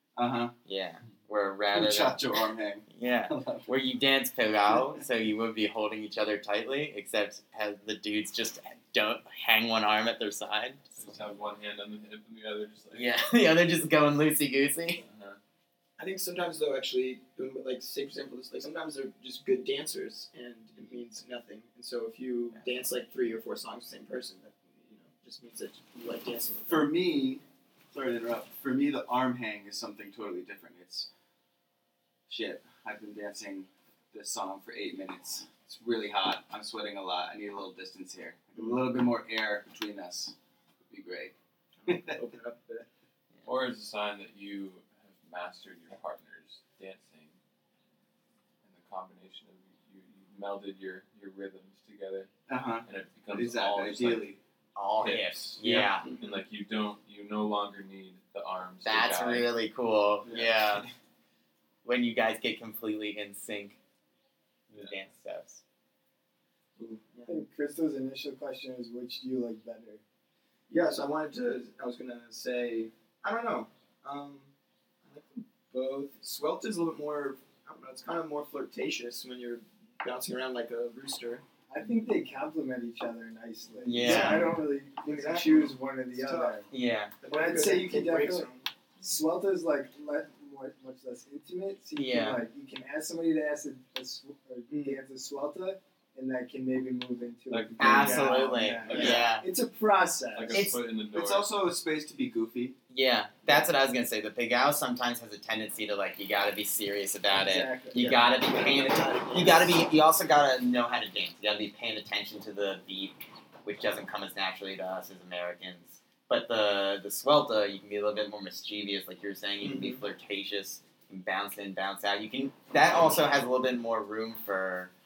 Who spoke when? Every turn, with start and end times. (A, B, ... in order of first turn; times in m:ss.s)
0:00.2-0:00.6 A
0:00.7-0:02.2 B
0:01.7-0:03.7 A
0:02.9-0:10.9 B
0:04.7-0:05.0 A
0:11.0-0:13.1 C
0:12.9-0:15.0 B
0:15.0-0:15.4 C
0:16.0-0:26.9 D
0:26.7-0:31.1 A
0:32.3-0:40.3 A
0:38.6-0:38.8 D
0:40.9-0:41.4 A
0:41.8-0:42.9 D
0:41.9-0:42.2 A
0:43.4-0:47.4 C
0:48.6-0:52.3 C
0:52.5-0:54.4 A
0:52.8-0:54.3 C
0:54.8-0:56.1 B
0:55.0-0:59.5 C
0:56.0-0:56.4 D
0:58.8-1:00.9 B
1:00.3-1:00.6 A
1:01.8-1:03.8 B
1:04.7-1:05.6 B
1:06.8-1:07.4 D
1:07.3-1:10.0 E
1:10.7-1:14.5 D
1:15.0-1:21.4 D
1:21.7-1:26.7 E
1:23.8-1:24.6 B
1:24.0-1:26.6 D
1:26.7-1:27.1 B
1:27.2-1:28.7 D
1:27.3-1:28.5 E
1:29.0-1:40.6 E
1:32.0-1:32.4 B
1:34.7-1:35.0 D
1:37.5-1:39.3 C
1:37.8-1:39.5 B
1:38.9-1:39.2 D
1:40.4-1:41.5 C
1:40.5-1:40.8 B
1:41.1-1:42.8 A
1:42.9-2:04.9 B
1:47.3-1:48.2 E
1:48.0-1:49.8 D
1:59.6-2:00.0 D